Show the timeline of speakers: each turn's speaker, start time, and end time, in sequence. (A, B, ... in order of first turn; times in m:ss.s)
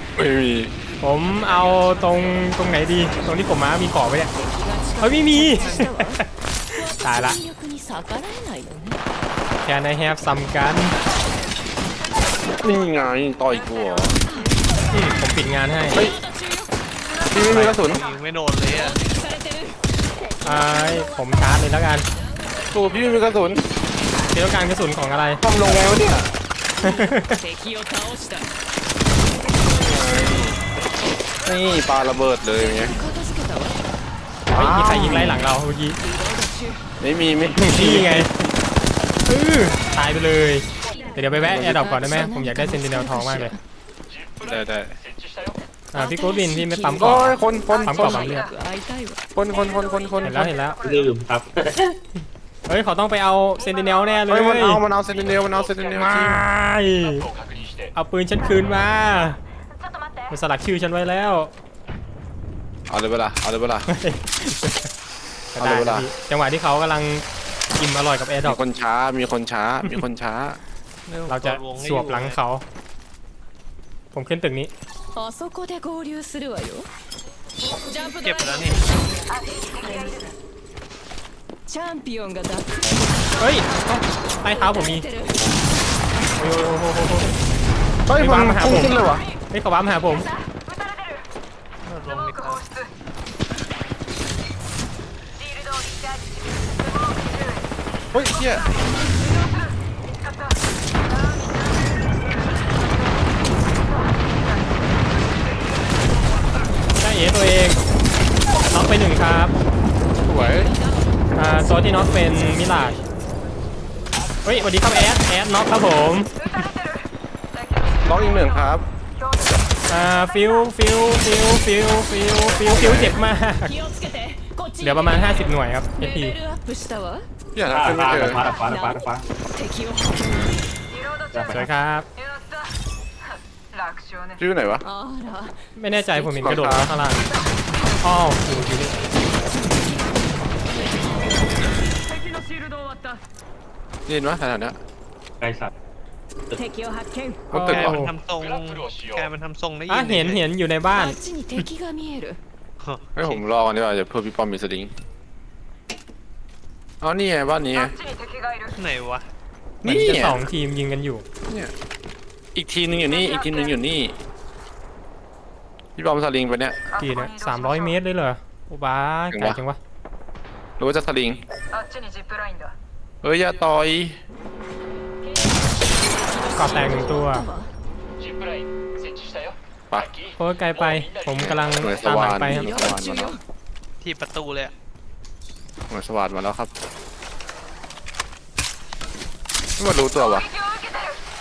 0:00.2-0:00.7 A
0:01.0-0:04.3 B
0:04.3-0:06.2 C
0:05.0-0:07.4 B
0:06.8-0:09.0 C
0:09.6-0:11.0 B
0:12.6-0:14.2 A
0:14.3-0:14.6 C
0:14.9-0:16.0 B
0:15.9-0:16.7 C
0:17.3-0:18.1 A
0:17.3-0:17.8 C
0:17.4-0:19.0 D
0:17.4-0:17.7 B
0:18.7-0:19.8 C
0:20.4-0:22.0 B
0:20.5-0:21.0 C
0:22.7-0:23.7 A
0:24.3-0:25.4 B
0:25.4-0:26.3 A
0:26.8-0:27.4 B
0:26.8-0:28.5 C
0:29.5-0:30.6 A
0:31.4-0:33.0 A
0:32.8-0:33.8 C
0:34.5-0:35.4 A
0:34.5-0:36.0 B
0:36.0-0:36.8 C
0:37.0-0:38.3 A
0:37.6-0:38.3 B
0:39.2-0:43.5 B
0:40.9-0:43.6 C
0:41.4-0:42.0 A
0:44.4-0:45.0 A
0:45.9-0:48.5 B
0:45.9-0:49.2 C
0:47.0-0:48.3 A
0:49.3-0:50.5 A
0:50.2-0:50.8 B
0:50.8-0:52.0 E
0:52.7-0:54.8 B
0:54.3-0:56.4 A
0:56.0-0:57.3 B
0:57.9-0:59.4 B
0:59.8-1:00.3 C
1:00.3-1:01.5 B
1:02.9-1:03.9 A
1:03.9-1:04.9 B
1:05.5-1:07.2 B
1:05.6-1:06.1 A
1:07.8-1:08.6 B
1:08.4-1:10.6 A
1:11.1-1:12.4 D
1:11.3-1:12.6 B
1:14.1-1:14.7 B
1:15.1-1:16.9 C
1:17.9-1:20.3 C
1:18.0-1:18.8 D
1:21.7-1:22.7 C
1:23.4-1:25.0 B
1:24.5-1:25.4 C
1:26.4-1:27.3 B
1:28.1-1:29.2 A
1:28.1-1:30.3 B
1:30.5-1:31.2 C
1:31.8-1:32.7 D
1:35.4-1:36.3 C
1:36.9-1:37.5 C
1:38.1-1:38.7 A
1:47.0-1:47.8 B
1:48.7-1:49.5 B
1:50.2-1:50.7 A
1:50.3-1:51.0 C
1:51.3-1:53.0 B
1:51.7-1:52.3 C
1:54.4-1:56.5 B
1:56.8-1:57.0 C
1:58.0-1:58.8 A
1:59.9-2:03.7 B
2:02.7-2:03.1 A
2:03.1-2:07.2 C
2:04.8-2:06.4 B
2:07.5-2:08.4 A
2:07.7-2:09.2 E
2:08.5-2:09.0 C
2:09.5-2:10.6 C
2:11.3-2:11.6 E
2:11.5-2:12.1 B
2:13.8-2:14.3 C
2:14.4-2:14.8 A
2:14.8-2:16.5 C
2:15.8-2:17.3 B
2:16.4-2:16.9 A
2:18.0-2:19.0 B
2:19.4-2:21.6 C
2:22.2-2:23.2 C
2:24.1-2:24.8 A
2:25.4-2:25.7 E
2:26.5-2:27.4 C
2:27.5-2:28.0 A
2:27.5-2:28.1 B
2:27.7-2:30.4 D
2:29.9-2:31.2 B
2:30.9-2:32.4 C
2:32.8-2:33.4 D
2:33.2-2:34.9 A
2:37.0-2:38.0 A
2:38.1-2:38.5 C
2:38.7-2:39.2 D
2:39.8-2:40.4 A
2:39.8-2:41.2 B
2:42.5-2:44.2 A
2:46.0-2:46.8 A
2:47.0-2:49.8 B
2:49.3-2:49.6 A
2:50.8-2:51.4 A
2:51.8-2:52.7 C
2:53.2-2:54.2 A
2:55.4-2:57.7 C
2:56.5-2:57.5 B
3:00.4-3:02.8 B
3:01.4-3:03.3 A
3:02.5-3:03.4 C
3:04.0-3:04.7 D
3:05.9-3:06.7 A
3:09.8-3:10.5 A
3:10.7-3:11.0 C